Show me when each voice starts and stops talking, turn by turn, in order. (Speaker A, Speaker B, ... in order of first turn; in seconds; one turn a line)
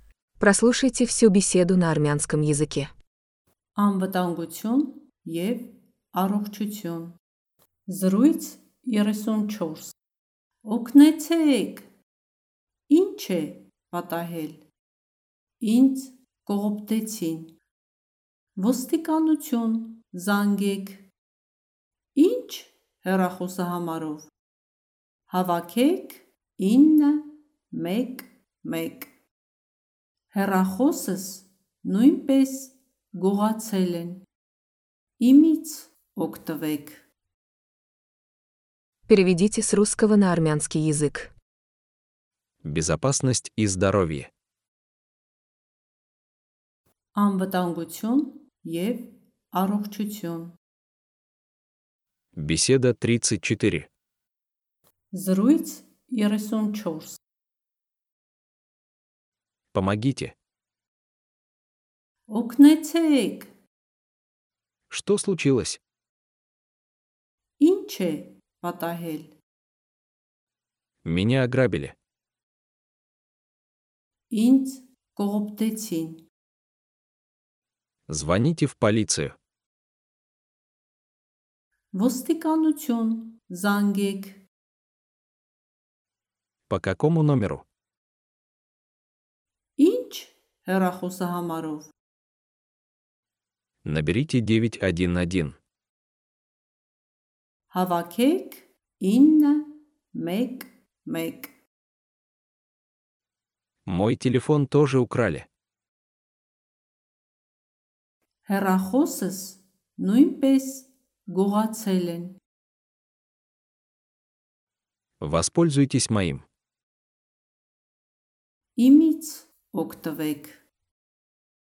Speaker A: 0.4-2.9
Speaker B: 3.8-7.2
Speaker B: 7.9-9.9
Speaker B: 10.6-11.9
Speaker B: 12.9-14.6
Speaker B: 15.6-17.6
Speaker B: 18.6-21.1
Speaker B: 22.1-24.3
Speaker B: 25.3-29.1
Speaker B: 30.3-34.2
Speaker B: 35.2-37.0
Speaker A: 39.1-41.3
Speaker C: 42.6-44.3
Speaker B: 47.1-50.5
Speaker C: 52.4-53.9
Speaker B: 55.1-57.2
Speaker C: 59.7-60.3
Speaker B: 62.3-63.5
Speaker C: 64.9-65.8
Speaker B: 67.6-69.3
Speaker C: 71.0-72.0
Speaker B: 74.3-76.2
Speaker C: 78.1-79.4
Speaker B: 81.9-84.4
Speaker C: 86.7-87.6
Speaker B: 89.8-91.9
Speaker C: 93.8-95.6
Speaker B: 97.7-101.5
Speaker C: 103.9-105.5
Speaker B: 108.5-112.4
Speaker C: 115.2-116.4
Speaker B: 118.8-120.6